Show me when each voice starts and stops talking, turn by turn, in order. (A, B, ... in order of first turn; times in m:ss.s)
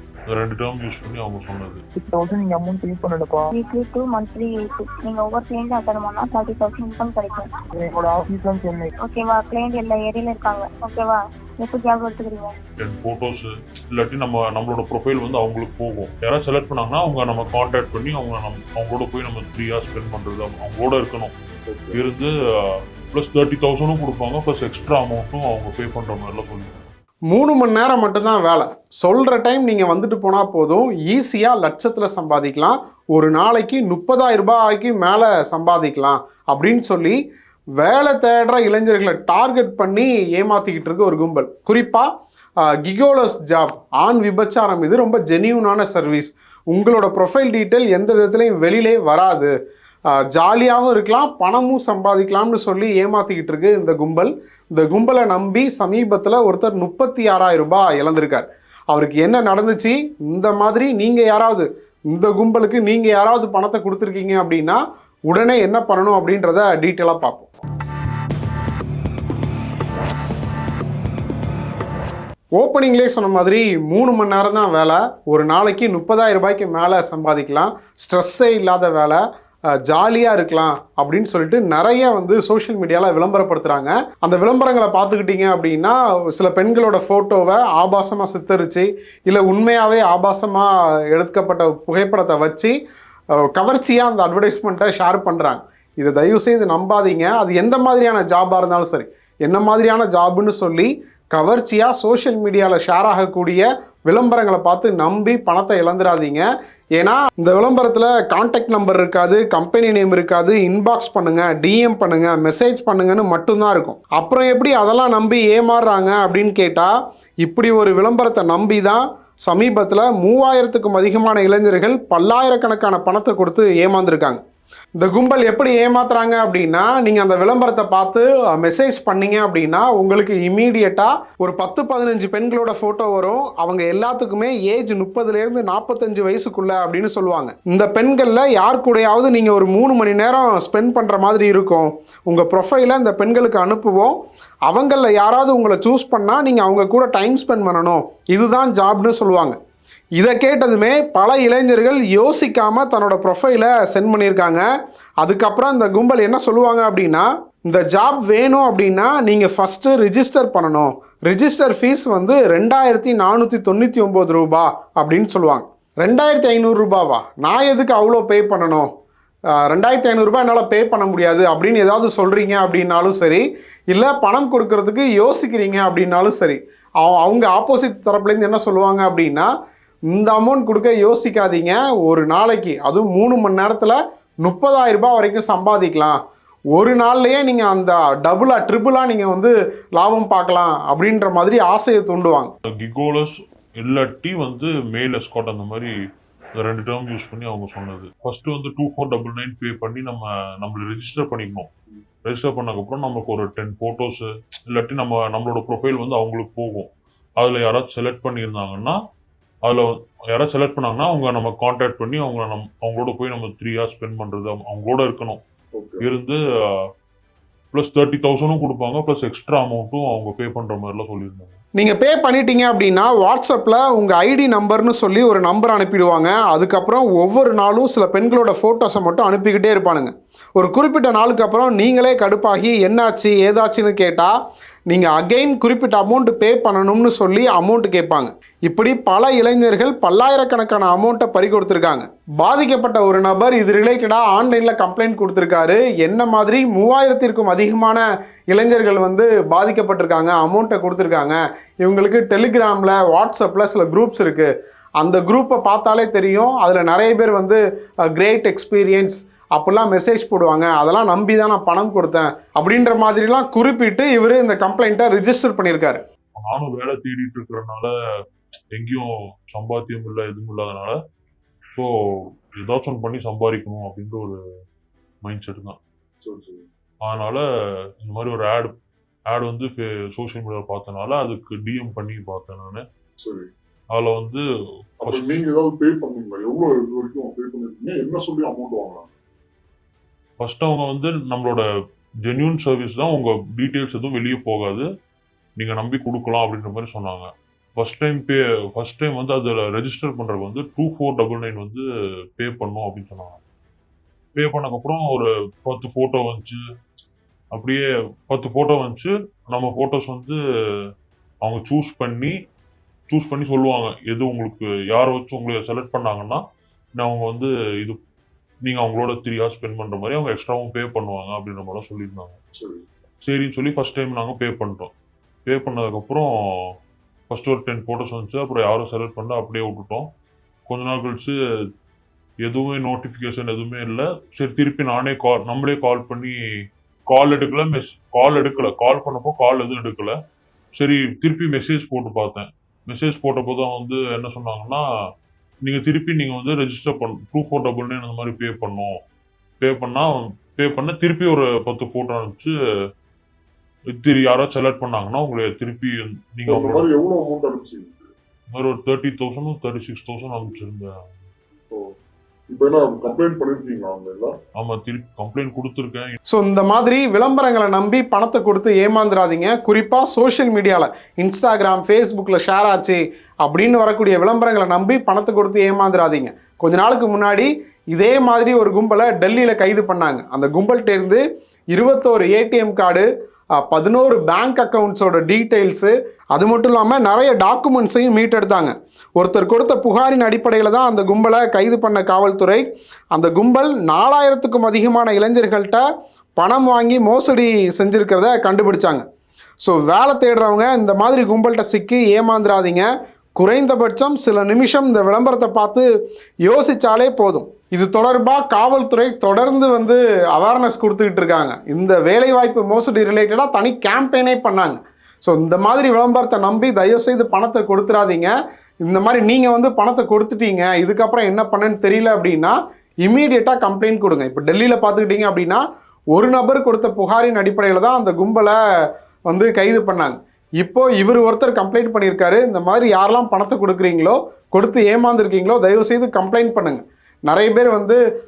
0:00.3-0:01.8 A
0:02.0-0:03.5 B
0:03.5-0:07.5 C
0:07.8-0:08.9 B
0:09.0-0:12.6 C
0:12.8-0:21.3 A
0:21.7-0:22.0 D
0:21.9-0:26.8 A
0:27.3-0:37.2 E
0:37.8-0:42.1 E
0:42.6-0:49.5 E
0:50.1-1:07.5 E
1:12.6-1:19.2 E
1:19.8-1:32.8 E
1:33.4-2:04.4 E
2:05.0-2:29.5 E
2:30.2-2:34.6 E
2:35.2-2:48.9 E
2:49.5-2:59.5 E
3:00.1-3:06.2 E
3:06.8-3:12.5 E
3:12.8-3:15.9 A
3:16.6-3:21.7 A
3:22.2-3:29.0 A
3:29.6-3:35.4 A
3:35.7-3:36.1 D
3:36.0-3:36.8 A
3:37.7-3:41.6 A
3:41.8-3:54.3 E
3:54.9-4:26.0 E
4:26.4-4:27.9 A
4:28.8-4:31.0 A
4:31.7-4:34.4 A
4:35.2-4:35.8 A
4:36.2-4:36.7 D
4:37.0-4:37.4 A
4:38.0-4:38.7 A
4:39.3-4:42.8 A
4:43.2-4:43.5 D
4:43.9-4:44.4 A
4:45.0-4:49.1 D
4:50.4-4:51.6 A
4:52.3-4:54.9 A
4:55.6-5:01.8 A
5:02.4-5:03.4 A
5:04.4-5:06.6 A
5:07.5-5:10.4 A
5:11.4-5:12.4 A
5:13.1-5:16.4 A
5:17.0-5:18.0 A
5:18.6-5:22.4 A
5:22.6-5:22.8 D
5:23.2-5:24.9 A
5:25.5-5:26.8 A
5:27.3-5:30.1 A
5:30.7-5:31.4 A
5:32.4-5:36.4 A
5:37.1-5:40.2 A
5:40.8-5:44.8 A
5:45.6-5:49.0 A
5:49.6-5:52.5 A
5:53.9-5:56.9 A
5:56.5-5:58.1 D
5:58.5-6:01.1 A
6:01.7-6:01.9 D
6:02.5-6:04.3 D
6:04.6-6:06.2 A
6:06.3-6:35.8 E
6:36.4-6:39.0 E
6:39.6-6:45.9 E
6:46.4-6:58.3 E
6:58.8-7:05.6 E
7:06.1-7:08.6 E
7:09.3-7:18.0 E